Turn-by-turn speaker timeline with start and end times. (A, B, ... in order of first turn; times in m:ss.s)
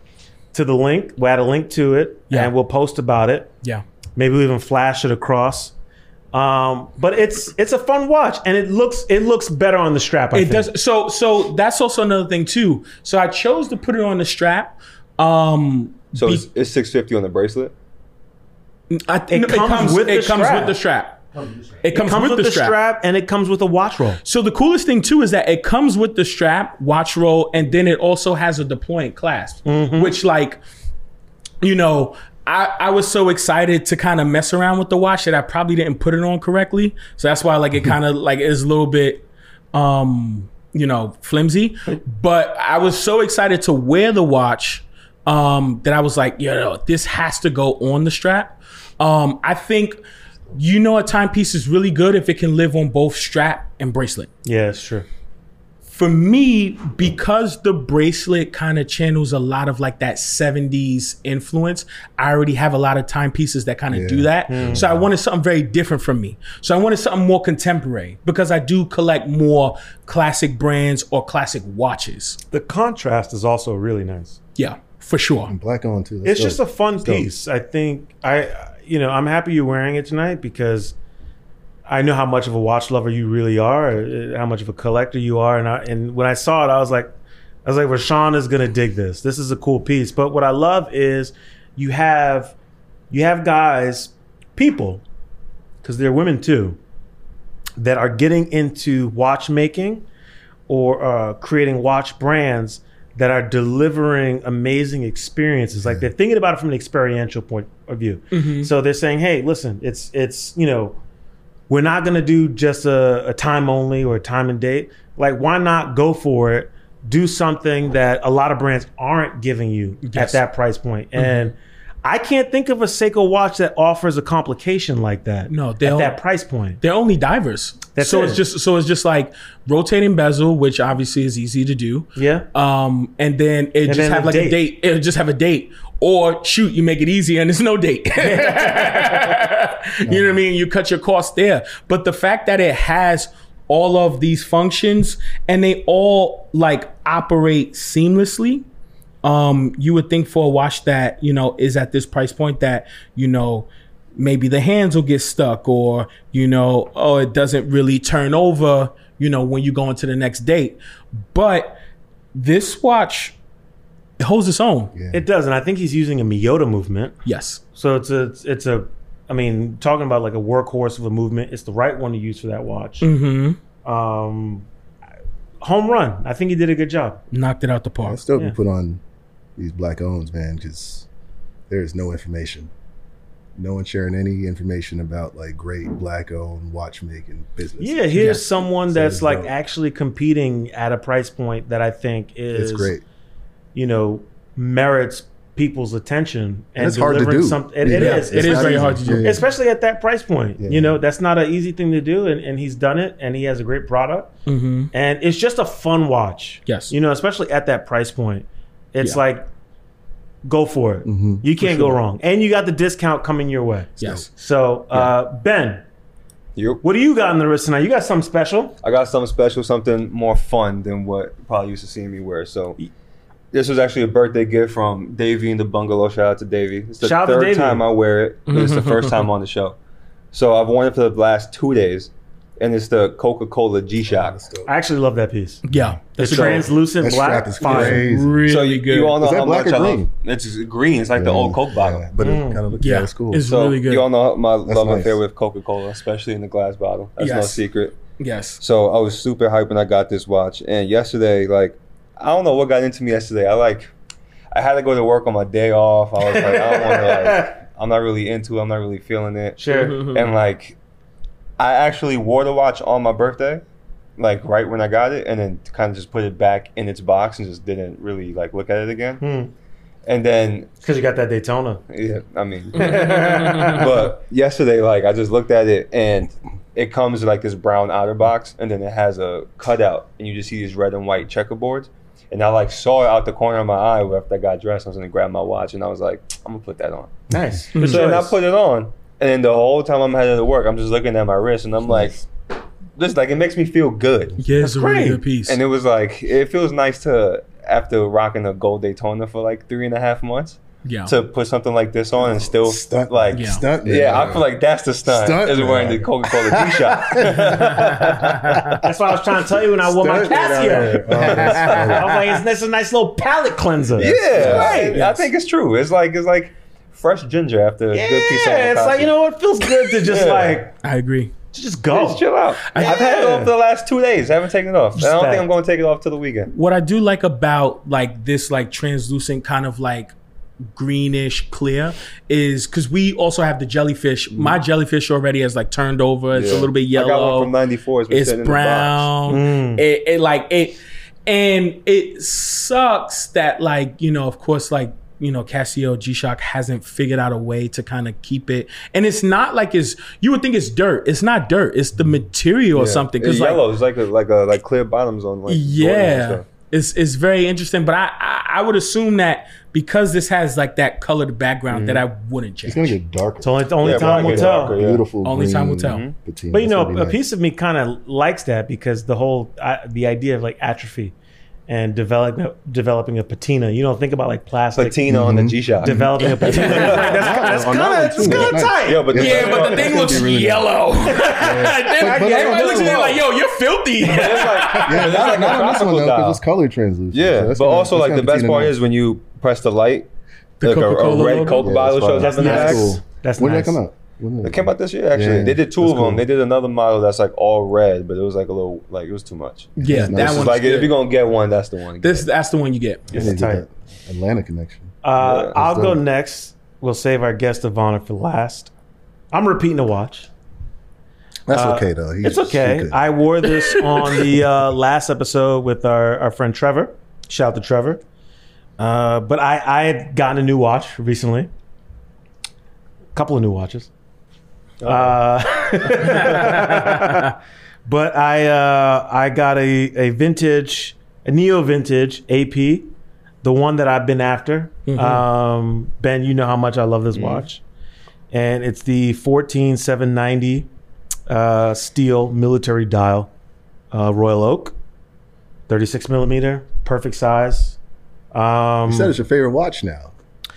0:00.5-0:03.5 A
0:04.2-0:05.7 A
0:06.3-0:10.7 A
0:10.3-0:16.4 B
0:16.1-0:17.7 C
0:18.9-0:21.2 B
0:19.3-0:20.8 A
0:21.8-0:22.8 B
0:21.9-0:24.2 A
0:24.2-0:30.6 B
0:29.6-0:30.2 A
0:31.6-0:50.0 B
0:50.5-0:54.3 B
0:54.4-0:55.0 A
0:55.9-1:12.4 B
1:03.9-1:05.0 D
1:04.5-1:04.9 A
1:12.5-1:14.4 A
1:14.6-1:15.5 B
1:15.5-1:17.3 D
1:16.2-1:20.9 A
1:21.9-1:27.1 A
1:27.6-1:32.5 A
1:33.1-1:35.0 A
1:35.8-1:36.8 A
1:37.8-1:40.0 A
1:40.7-1:51.0 A
1:45.8-1:46.1 D
1:48.3-1:48.7 B
1:51.7-2:06.8 A
2:00.0-2:00.4 B
2:01.2-2:01.5 B
2:05.5-2:06.2 B
2:06.8-2:28.6 B
2:08.0-2:08.4 A
2:12.2-2:12.5 A
2:13.9-2:14.6 A
2:18.2-2:19.3 A
2:20.0-2:20.4 D
2:29.2-2:41.8 B
2:42.3-2:43.4 B
2:44.2-2:44.9 B
2:44.9-2:45.2 D
2:45.1-2:47.2 A
2:47.2-2:47.6 B
2:47.7-2:53.1 A
2:53.0-2:53.6 B
2:53.8-2:54.6 A
2:55.6-2:57.2 A
2:57.3-2:58.2 B
2:58.0-2:59.0 D
2:59.6-3:01.1 D
3:01.7-3:02.7 D
3:03.6-3:09.5 D
3:07.8-3:12.9 A
3:12.5-3:13.0 D
3:13.7-3:24.3 A
3:16.8-3:19.4 D
3:17.9-3:19.3 B
3:20.6-3:21.0 D
3:24.5-3:24.9 B
3:24.9-3:29.5 A
3:26.7-3:26.9 B
3:30.4-3:35.8 A
3:31.0-3:31.4 D
3:34.0-3:34.3 B
3:36.6-3:36.8 C
3:36.8-3:38.8 A
3:38.8-3:42.8 C
3:43.5-3:49.8 C
3:47.0-3:47.8 A
3:48.5-3:49.3 B
3:50.3-3:54.4 C
3:54.0-3:54.7 D
3:54.6-3:55.6 A
3:55.6-3:56.7 B
3:56.2-3:58.0 A
3:57.0-3:58.4 D
3:57.6-3:59.2 B
3:58.4-4:02.1 C
3:59.2-4:00.1 D
4:01.1-4:03.5 D
4:02.2-4:02.6 A
4:02.8-4:04.0 B
4:03.4-4:08.0 C
4:04.6-4:05.2 D
4:07.2-4:07.6 B
4:08.2-4:08.6 B
4:08.6-4:13.9 C
4:14.5-4:20.8 C
4:16.2-4:17.6 A
4:19.6-4:20.1 A
4:19.7-4:20.3 B
4:21.6-4:23.6 C
4:24.2-4:29.2 C
4:29.2-4:29.5 A
4:30.0-4:30.7 C
4:30.8-4:31.8 A
4:31.9-4:47.2 C
4:32.8-4:34.1 A
4:32.9-4:33.8 B
4:47.3-4:48.4 A
4:47.7-4:48.1 B
4:47.8-4:52.2 C
4:51.8-4:52.2 D
4:53.0-4:54.4 C
4:54.4-4:55.6 B
4:54.6-4:55.2 A
4:55.4-5:08.8 C
5:00.8-5:01.1 B
5:02.2-5:04.5 D
5:03.3-5:03.6 B
5:05.0-5:08.6 D
5:07.8-5:08.6 B
5:08.8-5:15.1 A
5:09.5-5:12.2 D
5:11.1-5:12.0 B
5:14.0-5:19.1 C
5:14.2-5:14.9 D
5:14.9-5:15.2 B
5:17.9-5:20.7 A
5:19.8-5:20.6 C
5:20.8-5:21.3 B
5:21.5-5:23.5 A
5:21.9-5:26.5 C
5:25.0-5:25.5 A
5:26.5-5:30.1 B
5:30.6-5:37.5 B
5:34.3-5:34.6 C
5:36.3-5:39.1 C
5:38.1-5:53.6 B
5:39.3-5:39.8 A
5:52.7-5:56.4 C
5:55.5-6:03.0 B
6:01.7-6:02.0 C
6:02.6-6:07.2 D
6:03.4-6:04.8 A
6:03.8-6:05.0 C
6:05.2-6:06.0 B
6:05.9-6:06.1 C
6:06.5-6:11.1 A
6:11.7-6:15.0 A
6:14.7-6:17.2 C
6:15.1-6:15.7 D
6:15.8-6:19.2 A
6:16.2-6:17.4 B
6:16.7-6:20.6 D
6:18.2-6:20.6 C
6:19.1-6:25.6 B
6:21.1-6:23.2 A
6:21.4-6:23.1 D
6:24.0-6:26.4 C
6:24.7-6:28.8 D
6:27.1-6:30.1 C
6:30.6-6:31.7 B
6:30.6-6:32.9 C
6:31.6-6:36.2 D
6:32.2-6:33.8 A
6:34.4-6:42.3 C
6:39.8-6:40.6 D
6:39.8-6:40.9 B
6:42.0-6:43.1 B
6:43.1-6:43.7 A
6:43.1-6:46.0 D
6:45.0-6:48.7 A
6:45.2-6:45.5 C
6:49.3-6:50.3 A
6:51.5-6:53.0 D
6:51.5-6:58.0 A
6:58.8-7:01.5 A
7:03.1-7:03.9 A
7:04.8-7:05.2 C
7:04.8-7:07.3 A
7:06.0-7:07.3 B
7:06.1-7:06.5 C
7:07.8-7:12.9 A
7:13.4-7:17.6 A
7:14.9-7:15.2 B
7:17.1-7:17.4 C
7:18.3-7:20.7 A
7:21.3-7:23.3 A
7:23.9-7:24.7 A
7:25.7-7:27.8 A
7:28.3-7:29.1 A
7:28.9-7:30.1 D